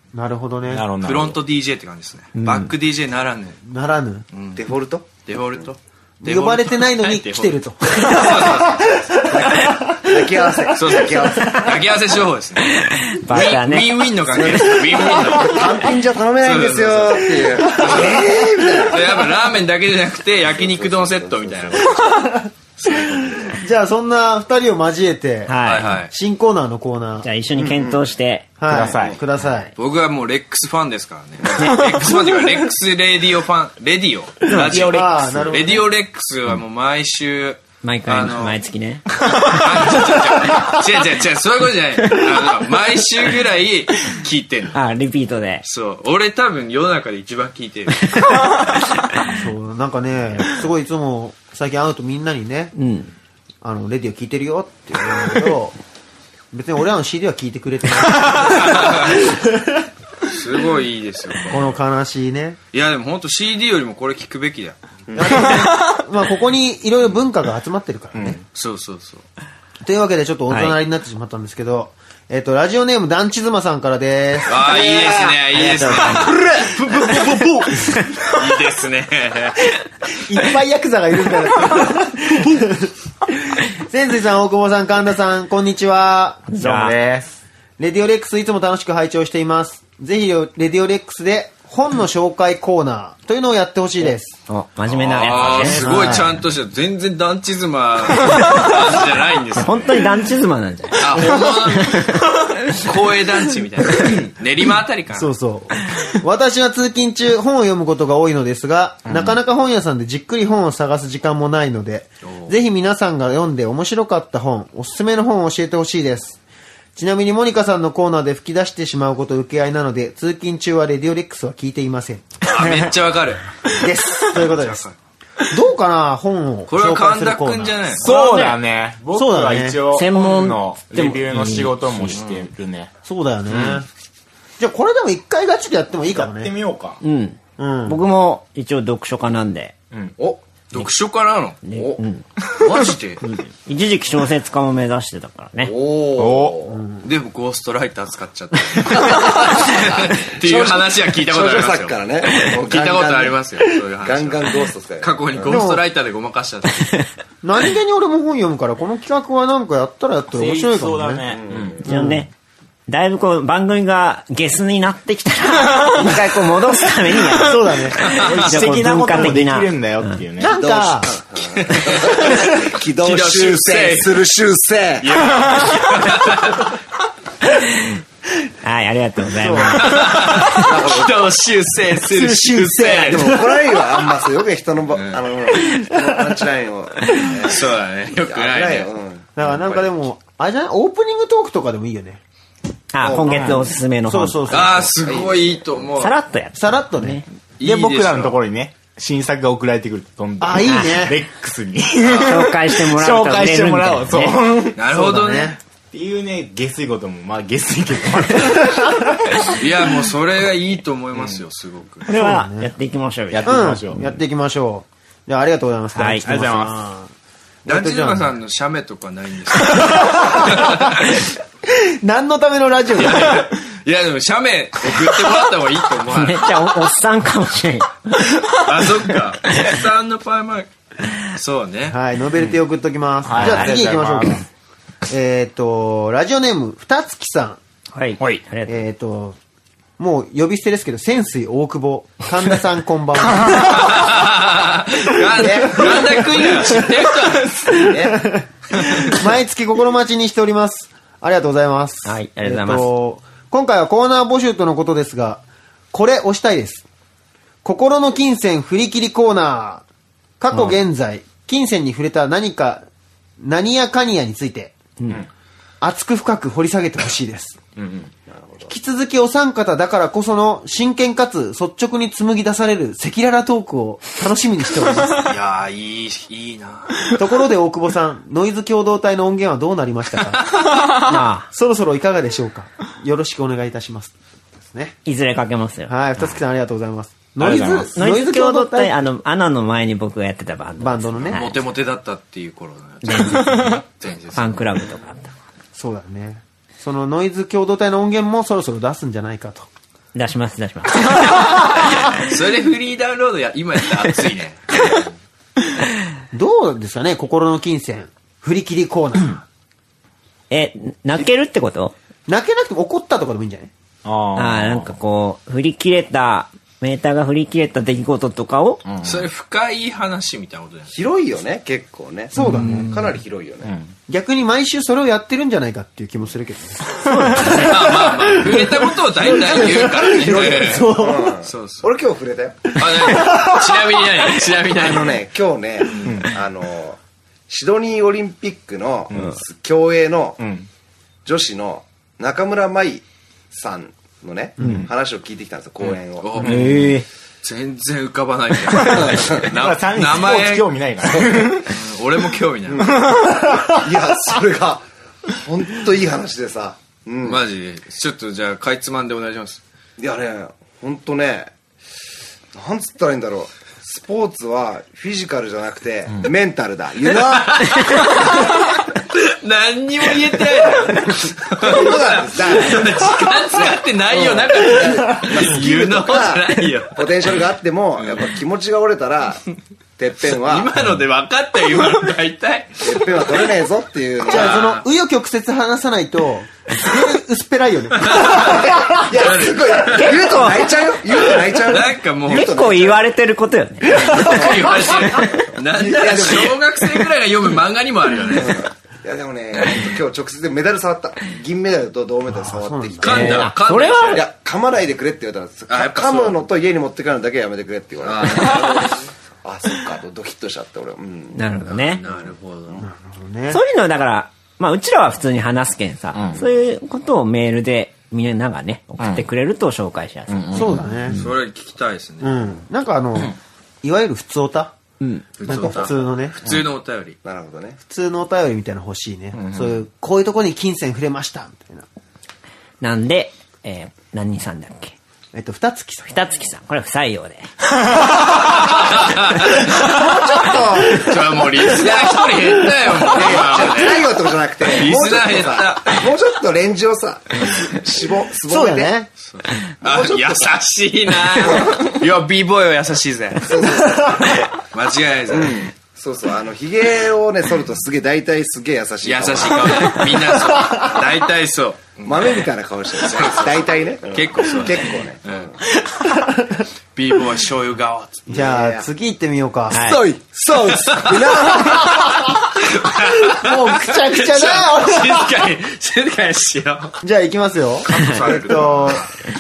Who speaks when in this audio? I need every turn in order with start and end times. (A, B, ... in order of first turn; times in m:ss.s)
0:00.1-0:00.9 A
0:00.7-0:01.4 B
0:01.0-0:03.6 C
0:02.4-0:02.7 D
0:03.6-0:04.3 A
0:04.3-0:04.6 C
0:04.6-0:05.6 E
0:05.2-0:09.2 C
0:06.2-0:08.9 A
0:09.3-0:12.0 E
0:10.8-0:12.8 C
0:12.7-0:14.1 D
0:13.3-0:15.8 C
0:14.2-0:19.6 E
0:16.4-0:21.9 C
0:20.4-0:22.1 E
0:22.8-0:23.6 C
0:23.6-0:25.5 A
0:25.5-0:26.0 D
0:25.6-0:26.1 C
0:26.1-0:27.3 A
0:27.2-0:28.5 D
0:27.5-0:28.1 E
0:28.6-0:29.7 A
0:28.7-0:29.2 B
0:29.8-0:38.6 C
0:31.6-0:32.0 D
0:34.5-0:34.9 D
0:34.5-0:35.8 A
0:37.8-0:39.6 D
0:39.4-0:44.8 C
0:44.7-0:45.6 D
0:45.6-0:48.2 C
0:48.0-0:48.5 D
0:49.3-0:52.7 A
0:52.8-0:53.1 D
0:53.6-0:55.8 A
0:56.5-0:59.4 A
0:58.5-0:59.2 C
1:00.3-1:01.8 C
1:01.5-1:02.6 A
1:02.7-1:04.8 C
1:05.2-1:08.4 A
1:05.2-1:06.0 B
1:08.5-1:09.2 C
1:09.8-1:14.6 A
1:10.5-1:10.8 D
1:14.5-1:19.7 C
1:14.6-1:16.7 E
1:15.8-1:16.2 D
1:20.2-1:22.9 A
1:23.8-1:26.5 A
1:26.5-1:26.9 D
1:26.6-1:27.4 B
1:27.8-1:34.4 A
1:34.5-1:36.3 D
1:35.0-1:40.2 C
1:35.2-1:35.8 B
1:35.8-1:36.2 A
1:39.6-1:42.8 D
1:41.0-1:42.0 C
1:42.7-1:45.3 C
1:45.1-1:56.4 A
1:49.1-1:49.4 B
1:52.2-1:52.5 C
1:57.0-2:02.4 A
2:02.4-2:03.5 C
2:03.8-2:04.8 A
2:04.3-2:05.0 C
2:05.5-2:08.5 A
2:06.7-2:08.6 C
2:08.0-2:12.9 B
2:09.1-2:09.8 A
2:09.9-2:12.2 D
2:12.1-2:12.5 C
2:13.0-2:13.9 A
2:13.5-2:13.8 B
2:14.6-2:16.5 A
2:16.1-2:17.0 B
2:17.0-2:19.8 D
2:17.6-2:18.0 A
2:20.7-2:21.9 C
2:21.6-2:22.2 D
2:22.6-2:23.2 C
2:23.2-2:25.7 D
2:25.6-2:26.8 E
2:26.2-2:26.6 B
2:26.7-2:27.1 A
2:27.0-2:36.9 C
2:29.2-2:35.7 E
2:35.4-2:35.8 A
2:37.4-2:41.3 A
2:40.3-2:41.8 B
2:41.3-2:41.8 E
2:41.8-2:42.2 A
2:41.8-2:42.3 D
2:42.9-2:50.1 D
2:47.5-2:48.0 A
2:48.1-2:50.6 B
2:48.2-2:48.7 C
2:50.4-2:51.1 A
2:50.5-2:55.5 E
2:51.6-2:52.3 C
2:53.0-2:54.1 C
2:55.0-2:56.7 C
2:58.6-3:00.1 D
2:59.4-2:59.9 A
2:59.8-3:03.4 C
3:00.6-3:01.4 E
3:02.1-3:03.4 A
3:03.0-3:09.3 E
3:04.9-3:05.2 C
3:07.5-3:08.9 C
3:09.4-3:12.2 A
3:12.9-3:14.7 D
3:13.0-3:13.7 E
3:13.2-3:13.6 B
3:14.1-3:14.9 A
3:14.5-3:16.2 C
3:15.0-3:15.8 E
3:16.0-3:17.3 D
3:16.5-3:17.2 A
3:17.6-3:18.4 C
3:17.6-3:24.8 B
3:20.4-3:21.2 A
3:22.2-3:24.4 D
3:24.8-3:25.6 C
3:24.9-3:25.6 A
3:25.9-3:29.4 B
3:29.6-3:32.1 C
3:31.1-3:31.4 B
3:32.1-3:32.7 A
3:32.1-3:33.7 D
3:33.3-3:34.2 B
3:33.4-3:37.1 A
3:36.0-3:36.2 D
3:36.2-3:36.8 B
3:37.6-3:38.4 A
3:37.7-3:41.2 C
3:39.9-3:41.0 A
3:41.7-3:43.4 A
3:43.0-3:46.7 C
3:46.1-3:48.6 D
3:48.6-3:50.7 C
3:51.4-3:52.0 C
3:51.9-3:54.4 A
3:53.2-3:54.4 B
3:55.1-3:57.6 A
3:58.0-3:58.8 D
3:58.7-3:59.4 A
4:00.0-4:03.8 A
4:03.7-4:07.5 C
4:05.3-4:06.9 E
4:07.7-4:08.2 E
4:08.2-4:16.8 A
4:12.1-4:12.9 D
4:17.6-4:19.8 A
4:20.4-4:22.8 A
4:23.4-4:24.8 A
4:25.8-4:27.6 A
4:27.8-4:28.1 B
4:28.3-4:28.7 E
4:28.7-4:35.2 A
4:35.2-4:37.0 C
4:37.1-4:40.5 A
4:41.0-4:41.5 D
4:41.5-4:45.0 A
4:45.0-4:46.4 D
4:45.9-4:49.1 A
4:47.4-4:47.9 B
4:48.0-4:51.6 D
4:50.8-4:51.4 A
4:51.3-4:54.8 C
4:53.0-4:55.3 D
4:55.8-4:59.7 A
5:00.2-5:02.2 D
5:02.3-5:04.9 C
5:06.3-5:09.4 A
5:10.5-5:11.9 D
5:12.3-5:13.7 A
5:14.0-5:14.9 B
5:14.4-5:18.8 D
5:18.9-5:19.2 B
5:19.0-5:20.9 C
5:20.9-5:23.8 E
5:22.4-5:22.9 A
5:22.4-5:22.7 D
5:23.6-5:23.9 B
5:24.1-5:27.7 A
5:27.1-5:27.9 D
5:27.6-5:31.9 C
5:28.4-5:31.3 A
5:29.3-5:32.8 E
5:32.8-5:35.2 C
5:33.1-5:33.5 A
5:34.6-5:40.4 E
5:40.4-5:40.7 B
5:41.2-5:46.4 E
5:45.8-5:46.6 C
5:46.4-5:46.9 B
5:46.4-5:47.0 D
5:47.4-5:50.7 C
5:48.8-5:49.5 E
5:49.5-5:51.7 B
5:51.0-5:51.6 E
5:51.7-5:52.9 C
5:52.7-5:57.4 E
5:57.2-5:59.6 C
6:00.0-6:01.5 E
6:02.5-6:08.5 E
6:07.3-6:08.4 C
6:09.2-6:17.4 C
6:11.5-6:19.4 E
6:18.0-6:18.3 C
6:20.0-6:20.8 E
6:20.2-6:23.5 C
6:22.8-6:24.7 E
6:24.3-6:24.8 C
6:24.3-6:28.5 A
6:28.0-6:28.6 C
6:28.3-6:33.0 E
6:29.2-6:30.5 C
6:30.3-6:30.5 D
6:31.1-6:32.9 C
6:32.3-6:35.3 D
6:33.9-6:38.7 C
6:35.7-6:37.1 E
6:38.2-6:43.5 E
6:42.3-6:43.4 A
6:43.0-6:44.3 C
6:43.1-6:44.2 D
6:44.1-6:52.8 E
6:45.7-6:46.5 C
6:48.2-6:48.9 C
6:51.3-6:52.0 D
6:52.0-6:52.8 C
6:52.8-6:53.6 A
6:53.5-7:01.3 D
6:56.2-6:56.4 B
6:59.0-6:59.2 B
7:00.3-7:00.8 B
7:00.5-7:01.2 A
7:01.1-7:02.3 C
7:02.2-7:04.8 A
7:05.0-7:05.3 D
7:05.4-7:07.2 C
7:05.4-7:06.4 A
7:07.2-7:07.8 E
7:07.8-7:11.9 A
7:09.4-7:09.8 B
7:12.8-7:14.9 D
7:15.3-7:16.2 A
7:16.1-7:17.5 D
7:18.6-7:19.0 E
7:19.0-7:19.4 C
7:19.5-7:29.0 E
7:21.1-7:24.1 C
7:24.7-7:26.0 C
7:28.5-7:29.1 A
7:29.3-7:33.5 C
7:29.8-7:30.4 E
7:31.2-7:32.0 E
7:33.4-7:34.4 E
7:34.7-7:35.7 C
7:35.3-7:40.2 E
7:39.0-7:42.4 C
7:42.0-7:45.6 E
7:43.0-7:45.4 C
7:47.0-7:48.3 C
7:48.3-7:50.0 A
7:48.3-7:48.9 E
7:49.7-7:50.0 D
7:49.8-7:52.1 E
7:50.8-7:51.2 C
7:52.8-7:57.0 C
7:53.3-7:55.3 A
7:57.0-7:59.0 A
7:57.9-7:59.0 C
7:58.1-7:59.0 E